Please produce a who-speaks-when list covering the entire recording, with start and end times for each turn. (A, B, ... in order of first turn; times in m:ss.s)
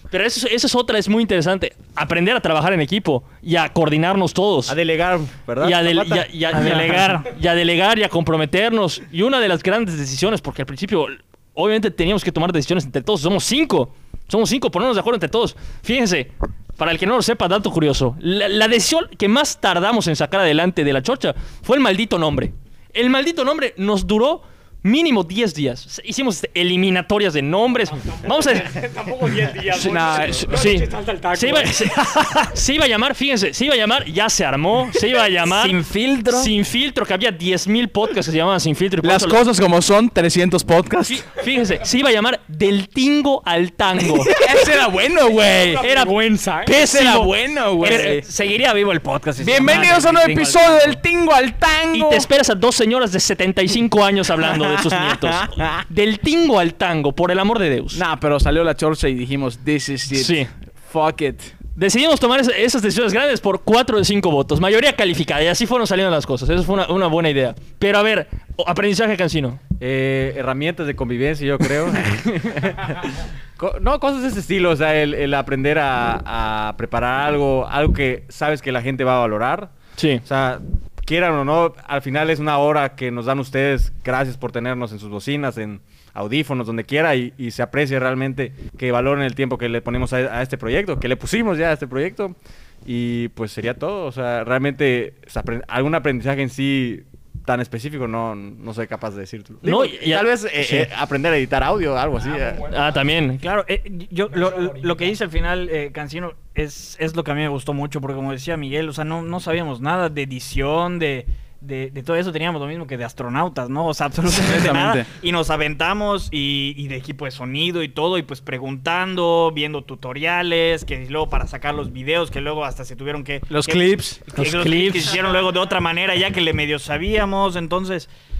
0:00.1-0:04.8 A
0:04.7-0:06.3 B
0:05.6-0:28.8 A
0:06.5-0:07.3 C
0:28.0-0:32.2 D
0:29.7-0:30.6 E
0:30.4-0:39.4 A
0:35.4-0:36.5 C
0:39.0-0:41.3 E
0:41.1-0:44.3 A
0:44.3-0:45.8 E
0:45.7-0:47.0 D
0:45.8-0:46.1 A
0:46.7-0:48.2 E
0:46.9-0:47.3 A
0:47.8-0:51.0 C
0:49.4-0:52.3 E
0:51.9-0:58.0 A
0:54.6-0:55.7 E
0:57.9-1:01.6 E
1:00.1-1:00.5 A
1:01.8-1:09.6 A
1:09.8-1:19.7 B
1:20.0-1:20.2 A
1:20.2-1:42.8 B
1:39.6-1:40.9 A
1:42.7-1:43.4 A
1:43.4-2:08.1 C
1:54.3-1:55.1 E
2:03.5-2:04.4 E
2:04.4-2:05.2 A